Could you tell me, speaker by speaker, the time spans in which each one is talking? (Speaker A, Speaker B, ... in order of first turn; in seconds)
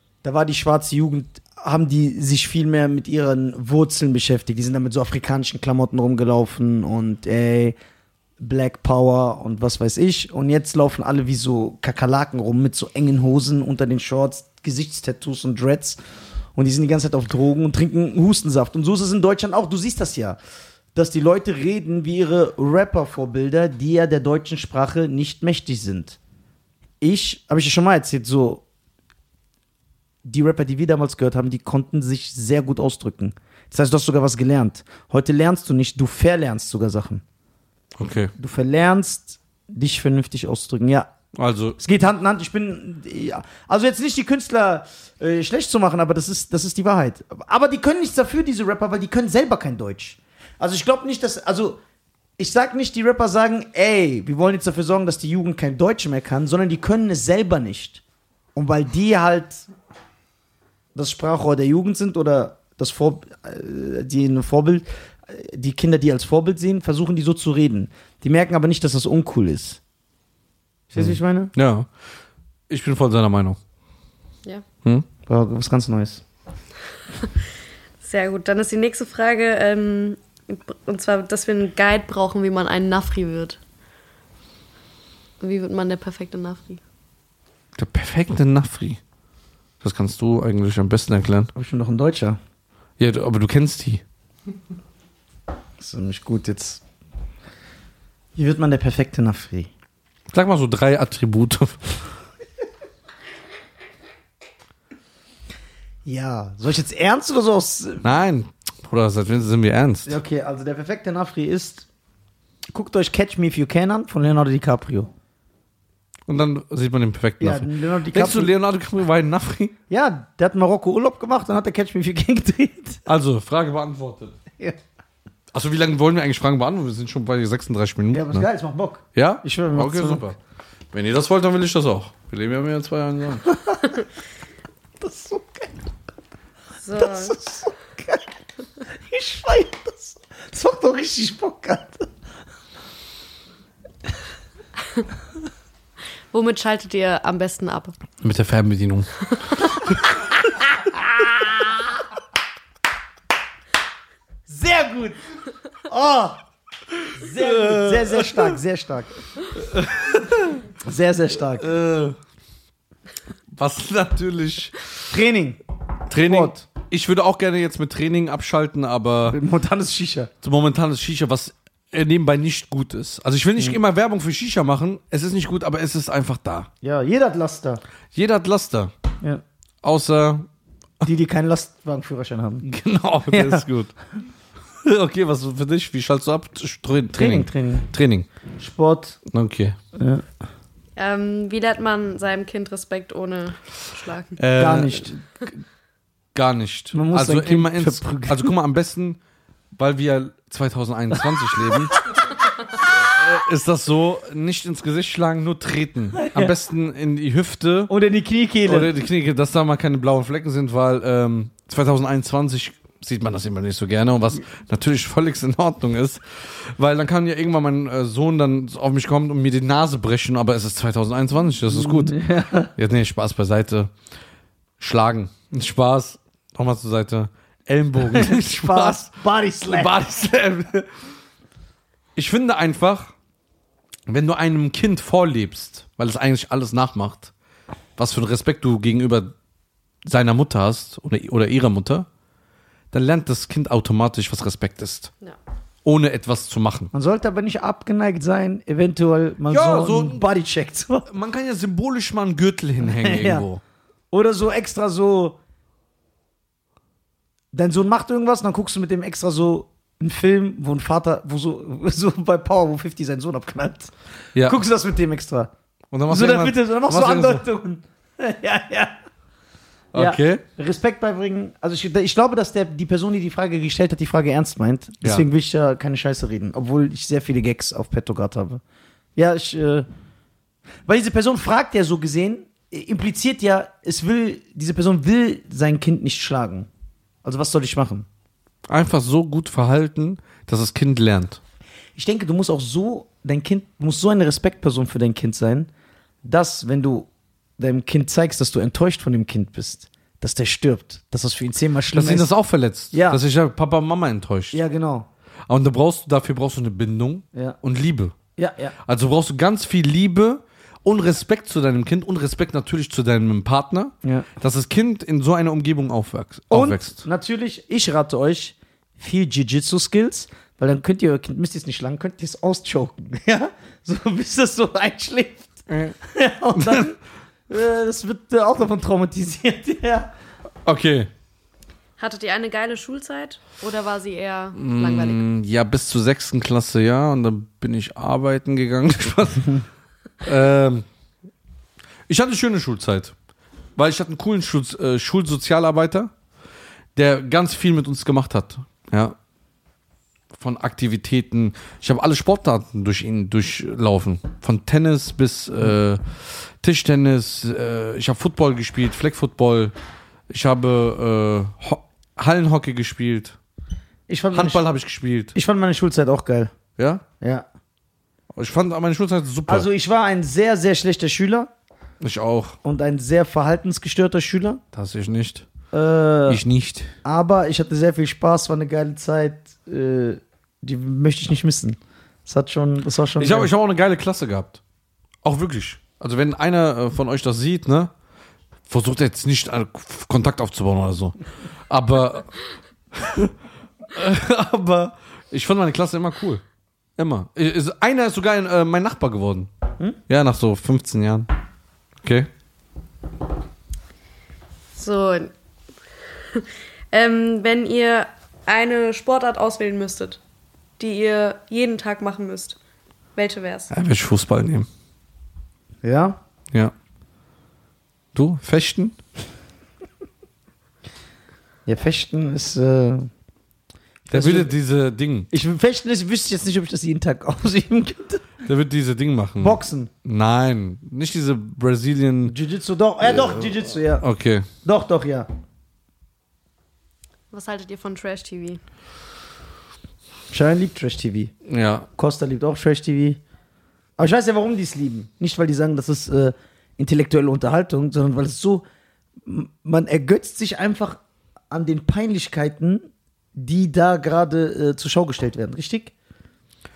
Speaker A: 0.2-7.8, 8.4-16.0, 16.6-20.4, 20.9-26.2, 27.0-28.6, 30.2-37.2, 38.4-41.1, 41.8-51.8, 52.4-58.0, 58.5-59.6, 60.9-69.8, 70.9-71.5, 75.3-76.2, 91.5-92.4, 95.8-96.8, 98.3-99.7, 106.0-108.1, 110.0-111.9, 112.7-115.1, 117.4-118.5, 119.9-123.0, 128.1-130.2, 133.5-134.0, 135.0-135.7, 136.9-138.3, 139.1-142.1, 154.5-155.2, 155.9-156.4, 157.1-159.1, 160.8-161.7, 165.1-165.6, 166.2-166.7, 169.3-170.3, 176.8-177.8, 181.0-182.7, 183.3-183.6, 187.1-187.9, 188.6-189.2, 189.9-190.2, 194.6-195.2, 196.9-198.5, 206.2-206.5, 207.9-209.0, 221.7-222.7, 228.1-229.9, 246.9-251.1, 252.9-253.4, 254.1-255.4, 257.5-265.5, 266.1-269.0, 269.9-278.6, 279.1-279.9, 280.9-286.7, 287.2-288.1, 291.9-295.7, 296.2-297.1, 297.6-302.3, 302.9-303.2, 304.5-305.1, 308.4-308.8, 314.0-314.3, 316.5-327.0, 327.5-330.1, 364.1-364.6, 365.3-366.5, 367.2-367.4, 369.5-371.5, 372.6-374.6, 375.7-376.4, 377.0-383.5, 415.8-416.2, 421.7-423.1, 424.0-424.5, 425.3-428.4, 429.4-429.9, 432.3-434.1, 434.6-435.3, 440.3-441.3, 442.0-443.2, 444.0-448.6, 449.2-451.0, 451.5-455.9
Speaker B: 38.0-38.3, 41.3-41.8, 71.0-71.9, 72.7-73.6, 87.8-89.0, 89.8-91.5, 93.0-94.0, 100.3-101.9, 108.0-110.2, 116.3-119.7, 123.1-124.4, 125.5-128.5, 129.1-130.4, 130.9-133.5, 148.2-149.2, 157.2-158.6, 159.5-160.6, 161.5-162.2, 163.5-164.9, 166.1-169.4, 170.4-176.7, 178.1-178.9, 179.8-180.5, 182.6-183.9, 184.8-188.3, 189.3-189.8, 194.4-195.5, 196.3-199.2, 199.7-201.9, 202.7-207.9, 208.6-222.2, 222.8-223.9, 224.8-229.1, 229.6-230.9, 232.1-233.1, 234.1-237.3, 238.0-239.3, 240.0-242.1, 242.9-245.1, 245.8-246.9, 249.5-250.2, 251.1-253.6, 265.9-267.4, 269.9-270.4, 288.7-291.4, 301.9-304.6, 305.5-308.1, 308.8-317.0, 325.7-325.9, 326.5-326.9, 330.6-331.1, 334.6-339.6, 340.2-340.8, 342.1-343.1, 343.8-346.1, 346.9-349.1, 350.3-359.7, 360.3-363.4, 364.3-365.3, 366.8-367.0, 368.3-369.7, 372.0-372.6, 374.7-375.5, 376.3-376.9, 383.2-384.6, 385.2-387.9, 388.7-391.1, 391.7-392.3, 392.9-393.3, 393.9-396.4, 397.0-399.5, 400.1-401.3, 402.0-402.3, 413.7-414.7, 418.1-418.9, 424.1-425.3, 428.4-432.3, 433.0-434.5, 441.5-441.9
Speaker C: 78.0-83.6, 85.4-86.8, 136.8-137.3, 146.3-147.9, 191.0-194.4, 332.0-335.2, 404.7-405.3, 406.3-410.2, 410.8-412.6, 413.1-413.7, 437.3-438.6